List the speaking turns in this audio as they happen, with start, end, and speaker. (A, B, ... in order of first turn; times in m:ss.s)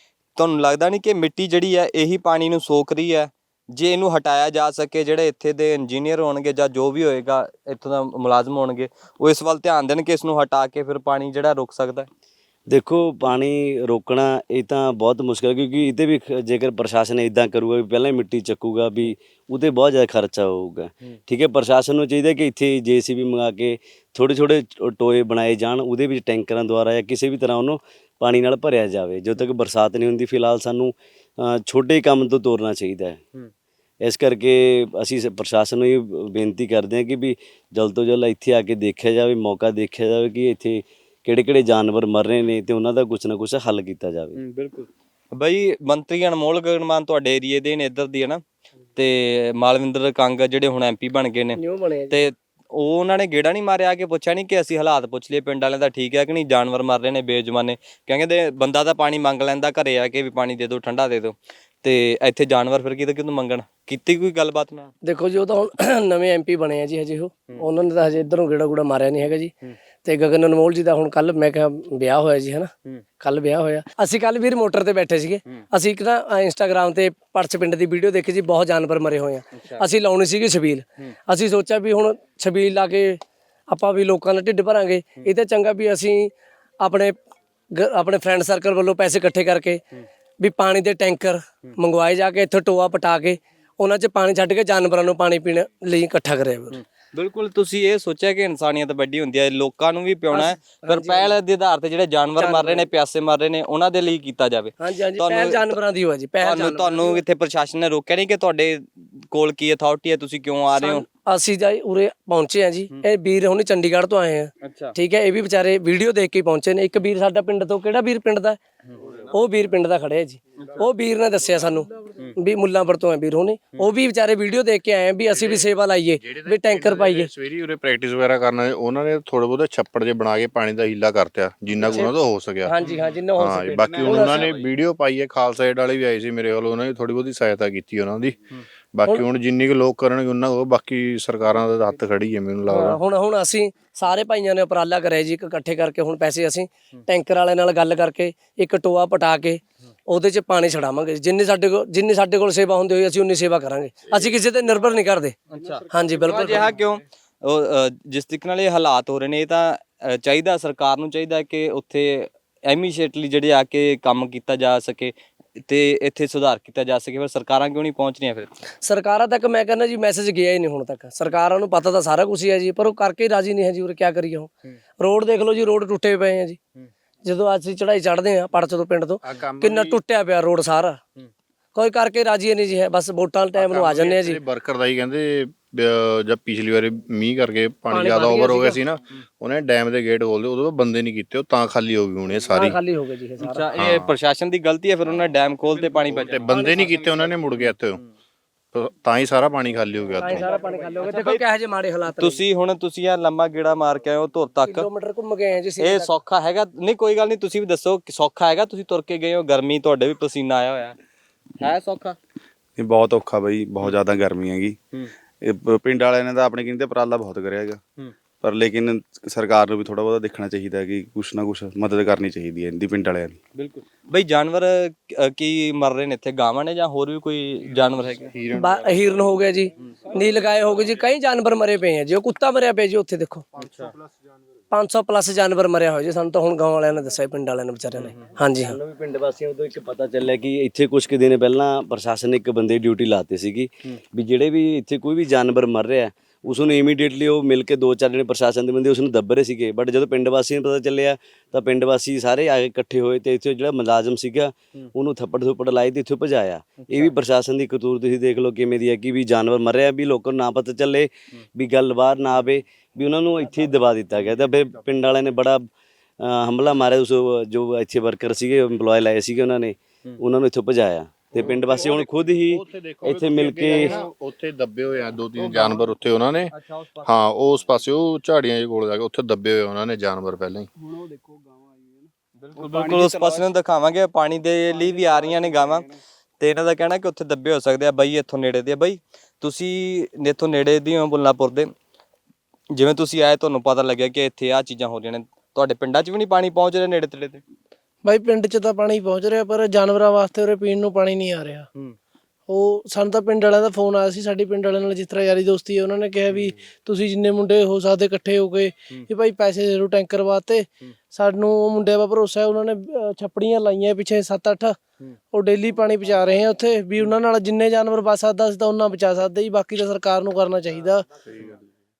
0:00.4-0:12.1 A
0:12.7-0:33.2 B
0:34.0-0:44.4 B
0:44.4-0:48.4 A
0:48.9-0:51.6 A
0:51.6-0:52.2 C
0:52.1-1:04.9 A
1:05.0-1:27.2 C
1:19.5-1:19.8 A
1:27.7-1:29.8 C
1:30.4-1:36.8 C
1:36.7-1:45.7 A
1:40.3-1:41.4 C
1:42.4-1:42.8 C
1:44.8-1:47.2 C
1:46.4-1:51.0 A
1:50.8-1:58.6 C
1:54.6-1:55.0 A
1:58.9-1:59.2 A
1:59.3-2:07.3 C
2:05.3-2:05.7 D
2:06.2-2:12.7 D
2:11.8-2:12.1 C
2:12.6-2:14.4 C
2:13.4-2:18.4 D
2:18.9-2:23.0 D
2:22.7-2:35.4 C
2:35.5-2:45.1 A
2:35.9-2:36.7 C
2:45.7-2:48.6 A
2:48.8-2:56.6 C
2:57.2-3:01.0 C
2:59.2-3:00.0 D
3:01.7-3:04.4 C
3:03.6-3:12.8 D
3:07.9-3:08.8 C
3:12.5-3:13.6 C
3:13.4-3:16.4 A
3:13.7-3:14.1 D
3:16.0-3:18.0 D
3:16.5-3:17.2 C
3:18.7-3:20.5 D
3:20.2-3:22.4 C
3:21.0-3:21.4 A
3:22.1-3:24.9 A
3:24.6-3:26.1 C
3:25.8-3:30.9 A
3:31.6-3:32.2 A
3:32.8-3:34.8 E
3:35.4-3:37.8 E
3:38.4-3:43.4 E
3:43.5-3:48.3 A
3:48.2-3:49.4 D
3:48.5-3:53.4 C
3:53.6-3:53.9 A
3:54.7-3:58.8 C
3:57.9-3:58.3 A
3:58.6-4:25.7 B
4:16.8-4:17.1 A
4:26.2-4:34.0 B
4:31.4-4:31.6 A
4:31.4-4:40.7 D
4:35.4-4:35.8 A
4:36.5-4:37.1 A
4:42.4-4:45.9 A
4:46.4-4:51.7 A
4:52.7-4:57.4 A
4:58.0-5:01.7 F
5:02.5-5:14.8 F
5:15.3-5:21.0 F